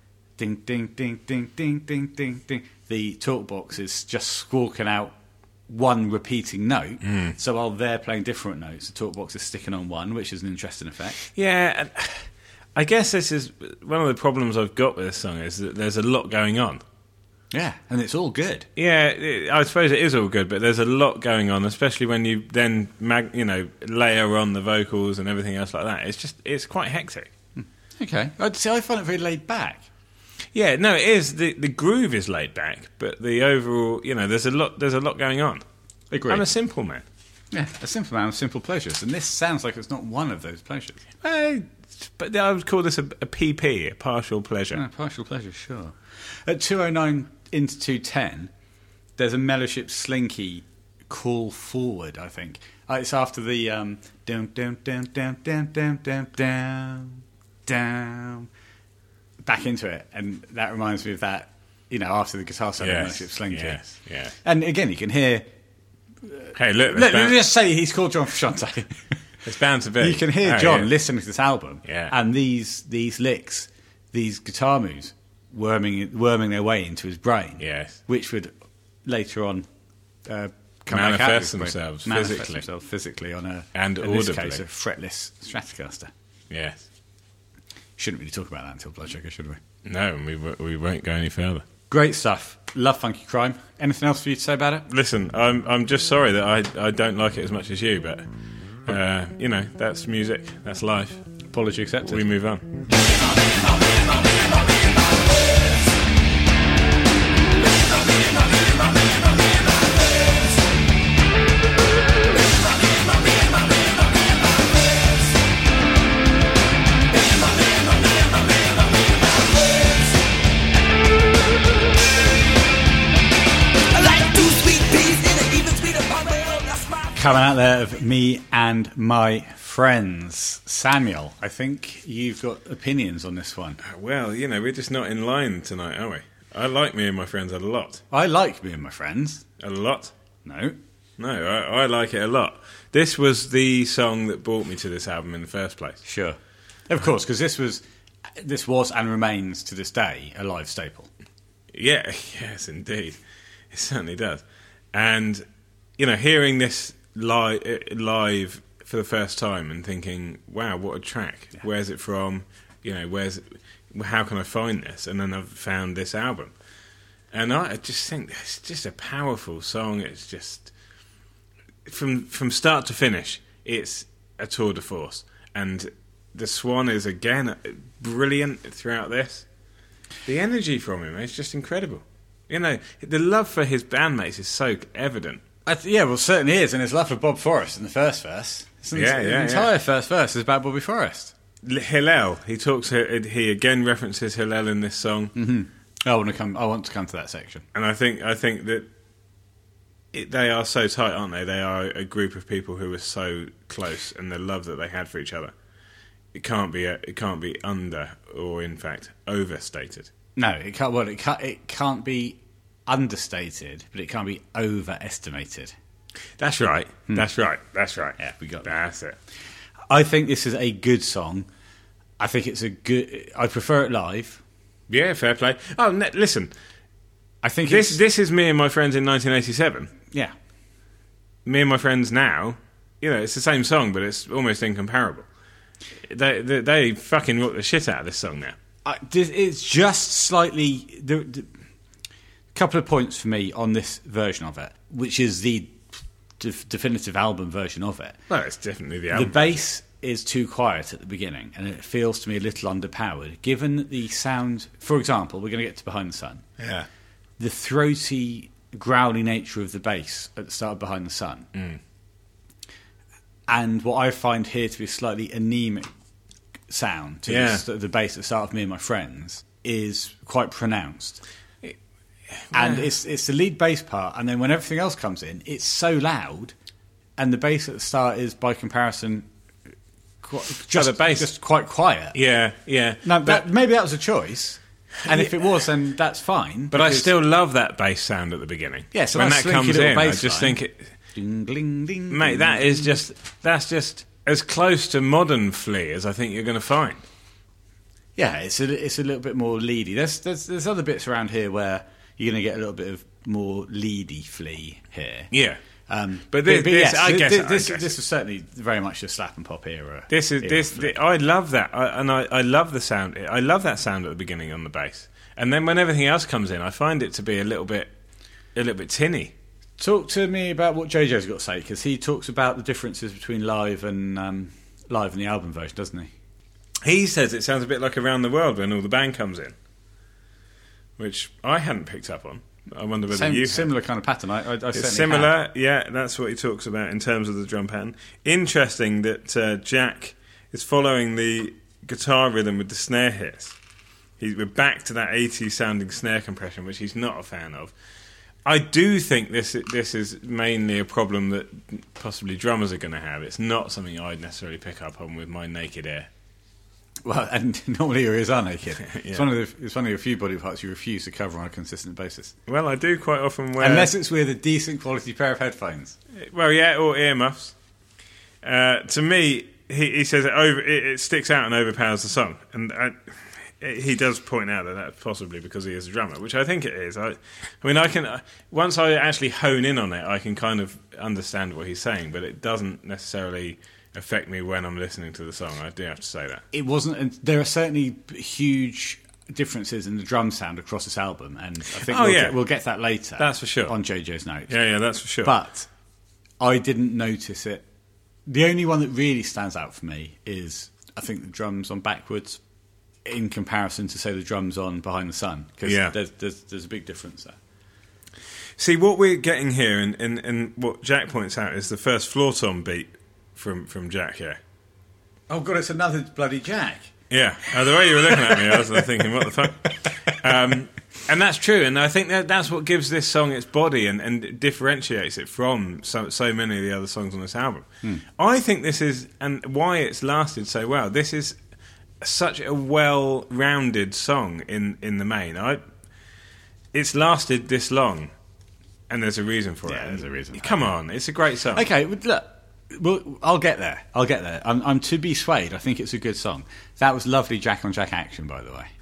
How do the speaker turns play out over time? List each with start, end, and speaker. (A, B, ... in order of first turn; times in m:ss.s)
0:00.4-0:05.1 A
0:05.7-0:11.2 A
0:11.3-0:16.8 B
0:17.5-0:18.7 A
0:18.8-0:27.3 B
0:27.6-0:29.9 A
0:30.5-0:35.6 B
0:36.1-0:36.4 A
0:36.3-0:37.0 B
0:37.5-0:41.0 A
0:41.2-0:44.8 B
0:44.7-0:48.5 A
0:49.2-0:58.5 A
0:59.4-1:03.8 A
1:02.8-1:04.3 B
1:04.4-1:05.5 A
1:06.2-1:09.0 A
1:06.6-1:07.4 B
1:09.4-1:10.9 B
1:10.0-1:18.5 A
1:11.9-1:12.1 B
1:17.6-1:18.0 B
1:19.0-1:19.7 A
1:20.3-1:26.1 A
1:20.9-1:22.6 B
1:23.8-1:24.6 B
1:26.5-1:26.8 B
1:28.0-1:29.6 A
1:29.8-1:31.6 B
1:31.9-1:34.9 A
1:34.9-1:38.2 B
1:38.8-1:41.2 B
1:41.5-1:42.2 A
1:42.1-1:42.6 B
1:43.8-1:45.7 C
1:48.0-1:48.4 C
1:57.2-1:58.8 C
1:59.5-1:59.9 C
2:03.9-2:07.1 C
2:07.2-2:13.8 A
2:13.8-2:18.0 B
2:18.1-2:19.4 A
2:19.6-2:20.1 B
2:20.4-2:20.8 A
2:21.2-2:26.0 B
2:26.0-2:26.4 A
2:26.9-2:27.8 A
2:28.4-2:31.1 A
2:31.7-2:33.2 B
2:33.7-2:35.5 B
2:36.0-2:46.5 B
2:47.3-2:50.7 B
2:51.9-2:59.5 B
3:00.3-3:05.4 B
3:05.7-3:11.4 A
3:08.9-3:09.7 B
3:11.6-3:15.3 B
3:15.4-3:17.6 A
3:17.7-3:18.9 B
3:20.1-3:25.5 B
3:26.3-3:30.1 B
3:30.4-3:35.7 A
3:36.4-3:39.2 B
3:38.2-3:38.7 A
3:39.9-3:41.5 A
3:42.2-3:44.4 A
3:44.9-3:46.5 B
3:47.4-3:48.0 A
3:47.7-3:49.9 B
3:51.4-3:55.3 B
3:56.0-3:58.6 B
3:58.8-4:01.5 A
4:02.5-4:05.8 A
4:06.4-4:08.2 A
4:08.3-4:09.5 B
4:09.1-4:16.4 A
4:16.6-4:16.9 B
4:17.4-4:21.5 A
4:21.6-4:21.8 B
4:23.5-4:25.9 A
4:26.7-4:31.2 A
4:27.3-4:27.6 B
4:32.4-4:32.9 B
4:32.5-4:36.6 A
4:37.2-4:39.3 A
4:40.2-4:42.2 A
4:40.7-4:41.3 B
4:42.1-4:43.4 B
4:43.0-4:47.1 A
4:45.1-4:45.4 B
4:46.7-4:50.9 B
4:48.9-4:50.6 A
4:51.1-4:52.9 A
4:52.1-4:57.0 B
4:58.2-5:05.3 A
5:05.3-5:05.6 B
5:05.9-5:11.0 A
5:06.3-5:08.0 B
5:10.1-5:17.9 B
5:18.6-5:19.3 B
5:19.8-5:26.1 A
5:26.8-5:29.6 B
5:31.0-5:33.7 B
5:33.1-5:35.3 A
5:34.7-5:43.6 B
5:44.2-5:47.7 B
5:48.4-5:56.1 B
5:57.0-6:02.4 A
5:58.9-5:59.2 B
6:02.5-6:03.9 B
6:03.6-6:06.0 A
6:06.1-6:07.5 B
6:08.4-6:26.4 B
6:26.5-6:34.5 A
6:31.8-6:32.4 B
6:33.2-6:33.7 B
6:34.5-6:35.3 B
6:35.2-6:35.7 A
6:36.4-6:37.6 A
6:38.3-6:42.4 A
6:43.0-6:47.4 A
6:45.6-6:45.9 B
6:48.6-6:54.4 B
6:55.3-6:56.9 A
6:57.1-7:11.4 B
6:57.7-6:58.8 A
7:12.0-7:15.6 B
7:16.7-7:18.1 B
7:18.9-7:21.7 B
7:19.7-7:20.7 A
7:21.5-7:28.7 A